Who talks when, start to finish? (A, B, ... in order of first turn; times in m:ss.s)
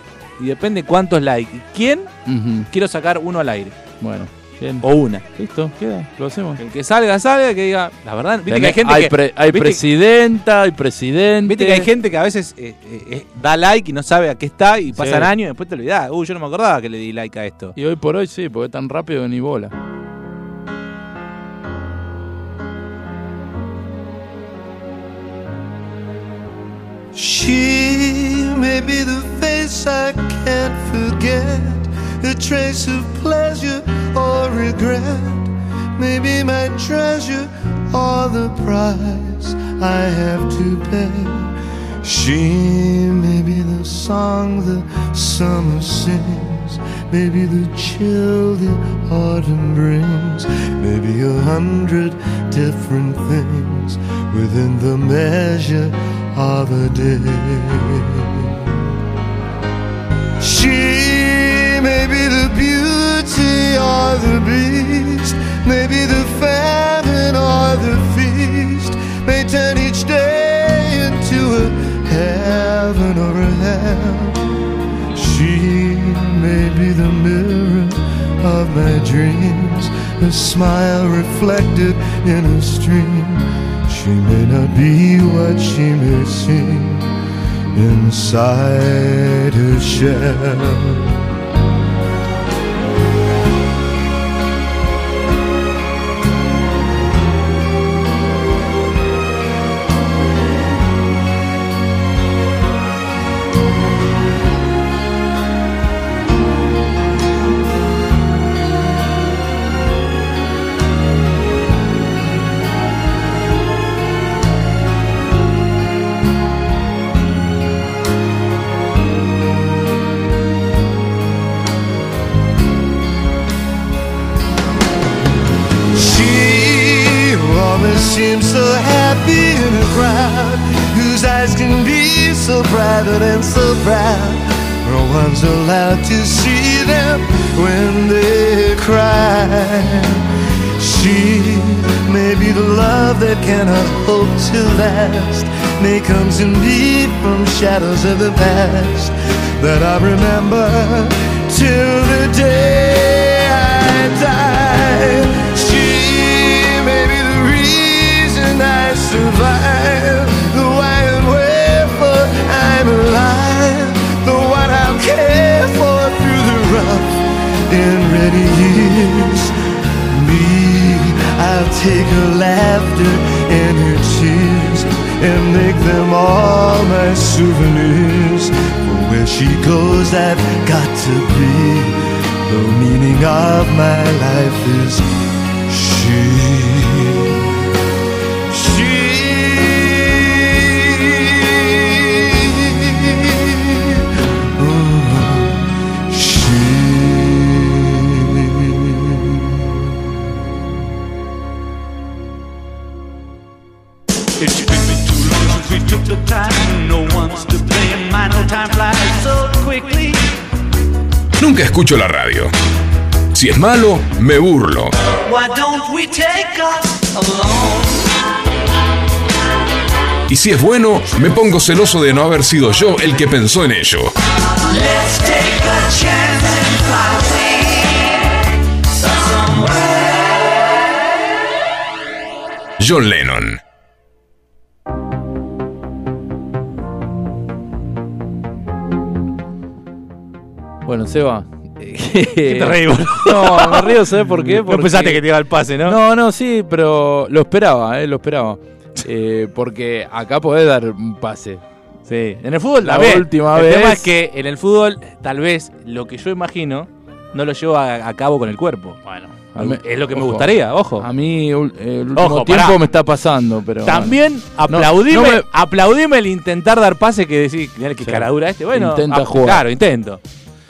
0:00.4-0:02.1 A
0:02.3-0:02.7 B
0:02.7-0:03.8 A
0:04.0-0:06.6 B
0:04.8-0:05.2 A
0:06.6-0:09.8 A
0:08.5-0:11.9 B
0:11.4-0:17.8 A
0:14.9-0:15.3 B
0:17.8-0:19.7 B
0:27.1-0:58.8 C
1:00.4-1:14.4 C
1:15.2-1:27.1 C
1:27.7-1:31.2 C
2:05.9-2:49.5 C
2:50.1-3:05.1 C
3:05.7-3:07.7 C
3:08.5-3:19.7 C
3:24.4-3:30.3 D
3:31.4-3:32.5 E
3:33.3-3:35.0 E
3:35.2-3:38.1 D
3:40.3-3:44.1 E
3:44.6-3:48.2 D
3:49.0-3:50.3 D
3:52.8-3:53.6 E
4:00.8-4:05.2 B
4:02.4-4:06.0 A
4:05.8-4:11.6 B
4:12.1-4:19.0 A
4:12.8-4:14.1 B
4:19.0-4:25.5 B
4:19.6-4:21.1 A
4:22.2-4:22.8 A
4:23.8-4:30.2 A
4:28.0-4:29.6 B